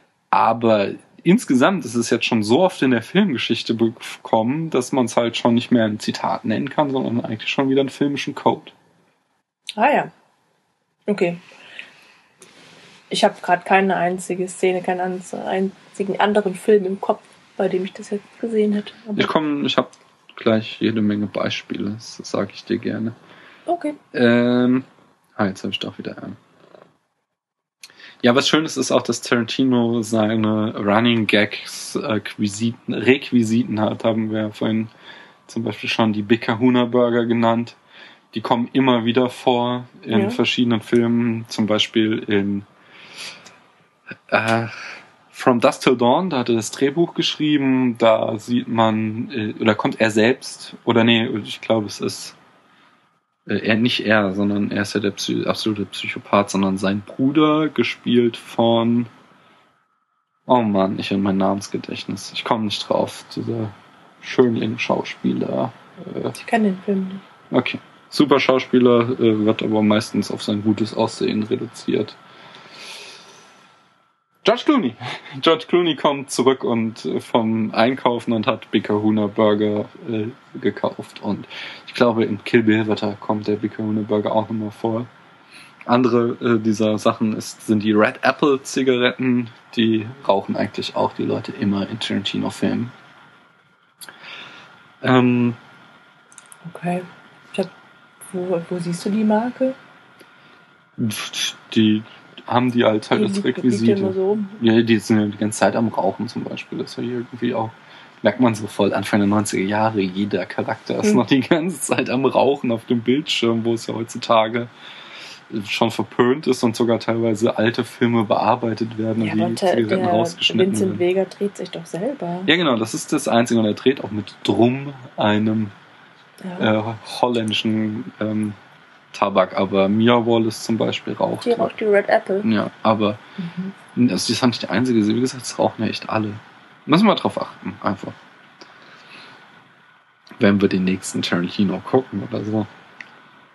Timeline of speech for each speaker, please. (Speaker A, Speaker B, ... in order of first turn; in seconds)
Speaker A: 0.3-8.7, 19.1-23.1, 24.1-26.4, 28.2-34.9, 35.5-37.8, 38.3-42.7, 44.3-52.4, 53.5-59.1, 60.5-66.3, 67.5-72.2, 74.4-85.1, 85.9-92.9, 95.0-95.6, 101.0-114.7, 115.5-121.0, 122.5-125.7, 126.6-128.6, 129.1-131.7, 132.4-133.2, 133.9-138.2, 140.4-142.7
Speaker B: 9.8-10.1, 11.1-11.4, 13.1-19.3, 23.7-24.0, 40.1-40.4, 66.4-67.2, 96.6-97.7, 98.2-99.8, 103.1-104.6, 119.2-122.5, 126.4-126.7, 131.4-132.5, 133.4-133.7